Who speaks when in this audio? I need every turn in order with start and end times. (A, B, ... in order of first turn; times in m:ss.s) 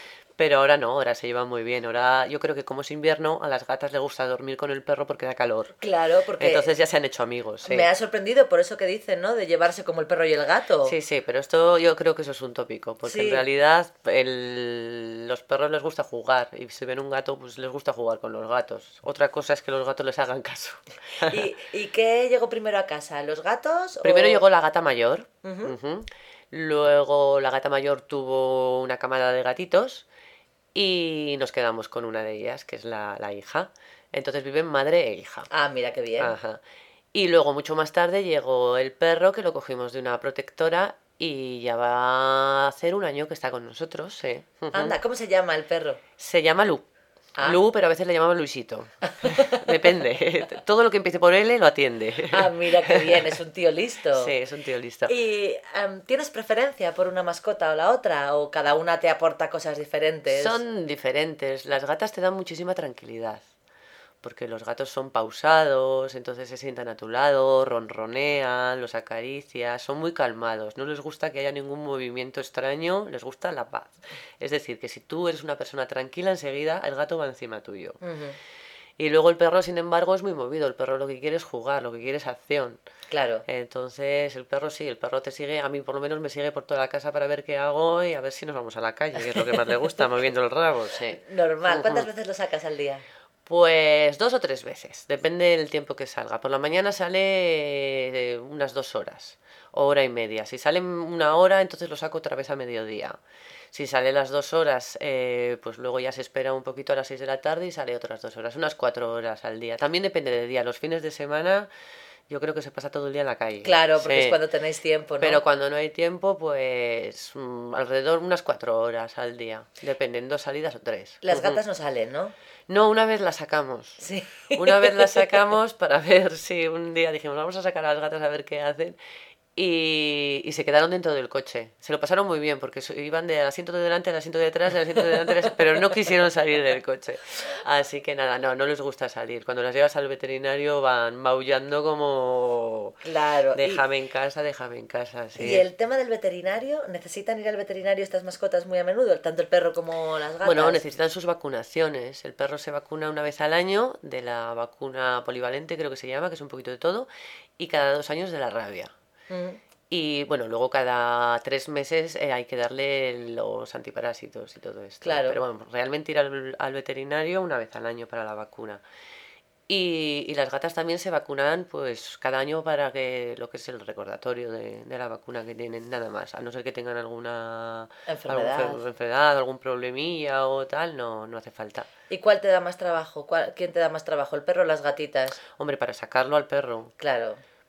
0:00.4-0:05.8 A
0:05.8-0:06.7 B
0:06.4-0:07.9 A
0:07.6-0:11.0 B
0:10.8-0:21.4 A
0:13.0-0:13.4 B
0:21.3-0:24.4 B
0:24.0-0:30.0 A
0:25.4-0:25.8 B
0:30.8-0:35.5 A
0:35.5-0:36.4 B
0:36.2-0:36.6 A
0:37.1-0:45.0 A
0:44.7-0:46.0 B
0:46.2-0:46.9 A
0:47.4-0:53.4 A
0:49.2-0:49.7 B
0:52.3-0:54.3 B
0:54.2-0:55.1 A
0:55.1-1:00.6 B
1:00.3-1:03.4 A
1:04.2-1:18.0 A
1:18.0-1:18.4 B
1:19.0-1:22.8 A
1:23.1-1:23.4 B
1:23.5-1:32.1 A
1:29.3-1:29.7 B
1:31.2-1:33.0 B
1:33.5-1:43.2 A
1:43.7-1:51.7 A
1:52.3-1:54.4 A
1:53.6-1:55.4 B
1:55.2-2:01.6 A
2:01.2-2:02.3 B
2:02.7-2:04.0 A
2:04.0-2:05.4 B
2:04.5-2:09.0 A
2:09.6-2:23.0 A
2:23.0-2:23.8 B
2:23.6-2:25.7 A
2:25.4-2:30.8 B
2:30.4-2:37.1 A
2:37.6-2:38.9 A
2:39.3-2:39.6 B
2:39.9-2:48.8 A
2:45.0-2:45.4 B
2:49.7-3:01.9 A
2:58.1-2:58.8 B
3:02.1-3:05.4 B
3:05.6-3:06.9 A
3:07.0-3:07.4 B